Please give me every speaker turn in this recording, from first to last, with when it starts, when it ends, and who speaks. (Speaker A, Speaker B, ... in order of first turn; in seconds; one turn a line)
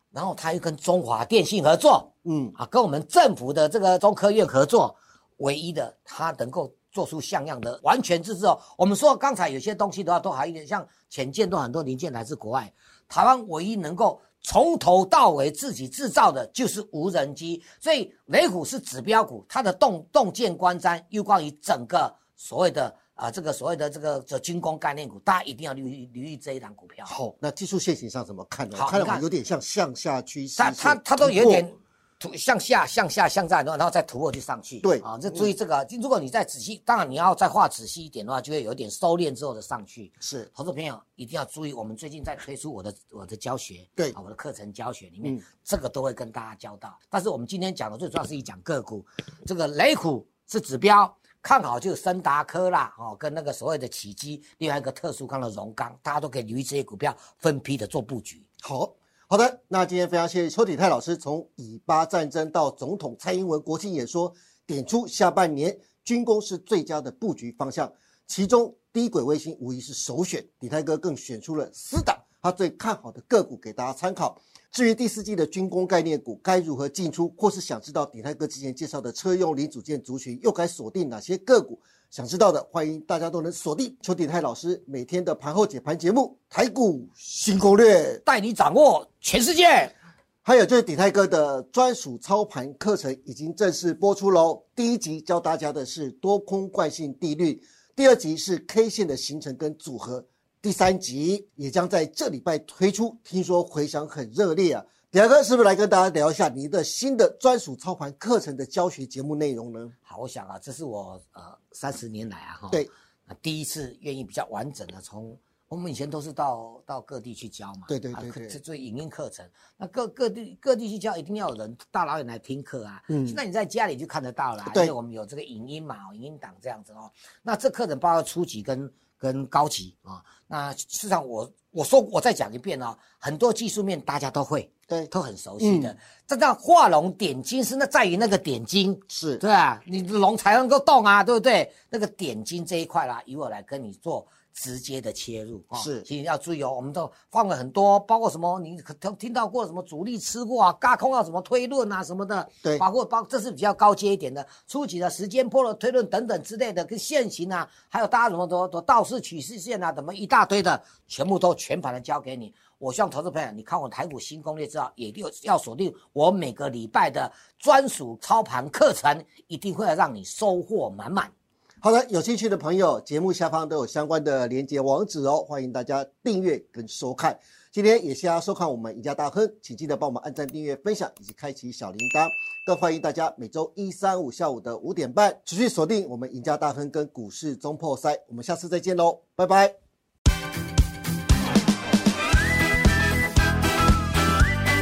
Speaker A: 0.1-27.1
Speaker B: 2.2-2.5
Speaker B: 27.1-31.7
Speaker A: 28.7-29.2
Speaker A: 30.6-58.4
Speaker B: 34.8-35.5
Speaker B: 40.2-40.5
Speaker B: 58.6-88.2
Speaker A: 88.2-89.9
Speaker B: 90.4-109.9
Speaker A: 110.0-171.3
Speaker B: 117.9-118.6
Speaker B: 123.1-123.4
Speaker B: 134.9-135.9
Speaker B: 139.1-139.4
Speaker B: 145.7-146.1
Speaker B: 171.8-189.7